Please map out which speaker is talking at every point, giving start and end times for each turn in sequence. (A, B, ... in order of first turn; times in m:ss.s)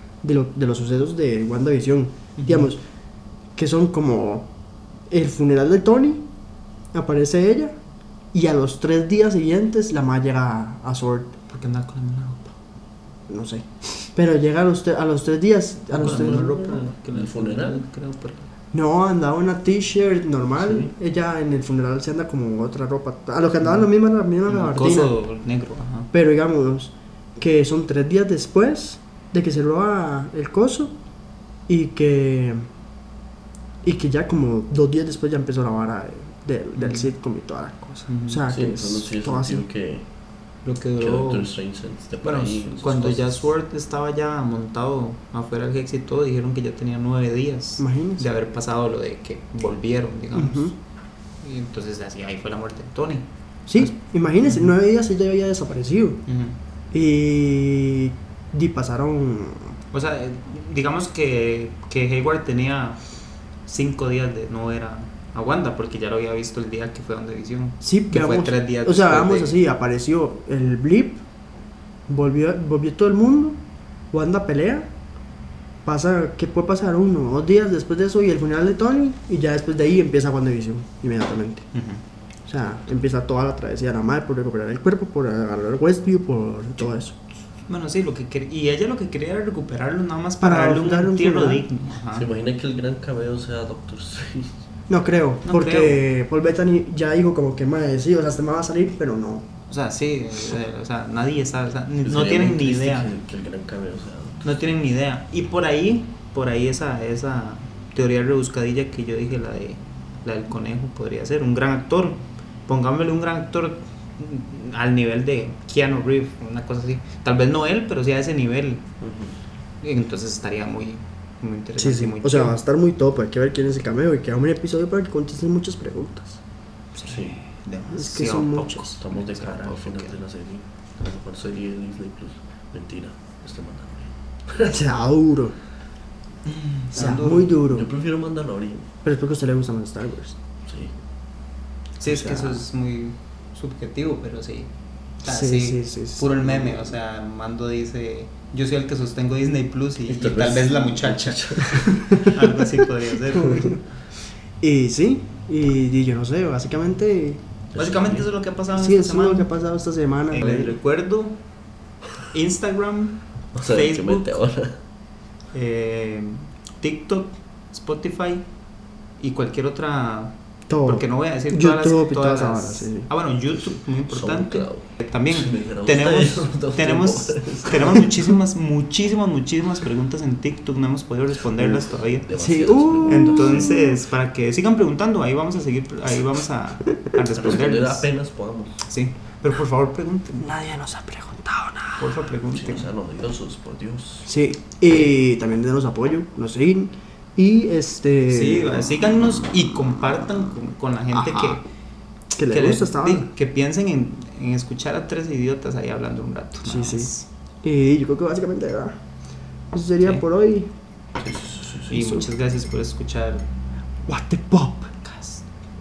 0:00.2-0:02.8 A
0:02.4-0:02.7 B
0:03.6-0:04.5 A
0:05.1-0:06.3 A
0:06.9-0:07.8 A
0:08.3-0:11.4 A
0:11.5-0:12.5 B
0:13.3-0:16.6 A
0:15.9-0:18.5 B
0:16.0-0:17.8 C
0:18.7-0:25.1 A
0:20.6-0:20.9 C
0:23.6-0:23.9 B
0:24.5-0:26.1 B
0:26.1-0:31.0 A
0:31.7-0:32.7 A
0:33.8-0:39.6 A
0:36.8-0:37.1 B
0:38.1-0:38.4 B
0:38.5-0:40.0 C
0:40.6-0:41.5 B
0:41.0-0:43.5 C
0:42.2-0:50.8 B
0:47.8-0:48.3 A
0:50.3-0:50.7 A
0:51.4-0:54.7 B
0:53.7-0:56.2 A
0:56.3-0:56.6 B
0:56.9-0:59.8 A
0:59.9-1:03.0 B
1:03.7-1:09.6 B
1:07.8-1:11.2 A
1:12.1-1:13.6 A
1:14.1-1:14.9 A
1:15.8-1:21.7 A
1:21.7-1:22.0 B
1:22.5-1:27.2 A
1:27.7-1:32.3 B
1:30.4-1:31.7 A
1:32.1-1:34.6 C
1:34.9-1:39.5 A
1:35.5-1:36.0 B
1:39.7-1:43.1 B
1:42.0-1:44.4 C
1:44.4-1:58.8 B
1:59.0-1:59.4 C
1:59.8-2:02.6 B
2:01.8-2:06.4 A
2:07.0-2:10.2 B
2:07.0-2:07.4 C
2:07.9-2:08.9 A
2:09.0-2:14.1 C
2:14.6-2:15.6 A
2:16.5-2:17.6 B
2:16.9-2:17.9 A
2:17.7-2:18.9 C
2:19.0-2:20.4 A
2:20.6-2:21.0 C
2:22.0-2:24.7 B
2:22.0-2:22.6 A
2:25.2-2:33.8 B
2:25.2-2:26.3 A
2:26.4-2:26.9 C
2:30.1-2:31.9 C
2:33.3-2:33.8 A
2:34.6-2:37.4 A
2:37.7-2:38.3 C
2:37.8-2:39.5 B
2:38.8-2:40.8 A
2:40.3-2:41.4 B
2:42.3-2:44.4 B
2:43.5-2:44.8 C
2:45.5-2:48.4 B
2:49.2-3:02.3 B
2:50.7-2:53.1 A
2:54.1-2:58.0 C
3:01.6-3:03.8 C
3:02.4-3:04.0 A
3:03.1-3:08.1 B
3:07.4-3:08.8 C
3:08.8-3:10.5 B
3:10.4-3:12.2 A
3:12.0-3:12.9 B
3:12.5-3:14.3 C
3:14.2-3:18.9 A
3:18.3-3:21.7 B
3:21.1-3:21.6 A
3:22.4-3:23.3 A
3:22.5-3:27.3 B
3:26.7-3:27.1 A
3:27.6-3:29.0 A
3:29.7-3:30.7 A
3:31.2-3:32.2 C
3:31.9-3:33.5 B
3:32.0-3:32.3 A
3:34.1-3:34.9 A
3:35.0-3:35.4 B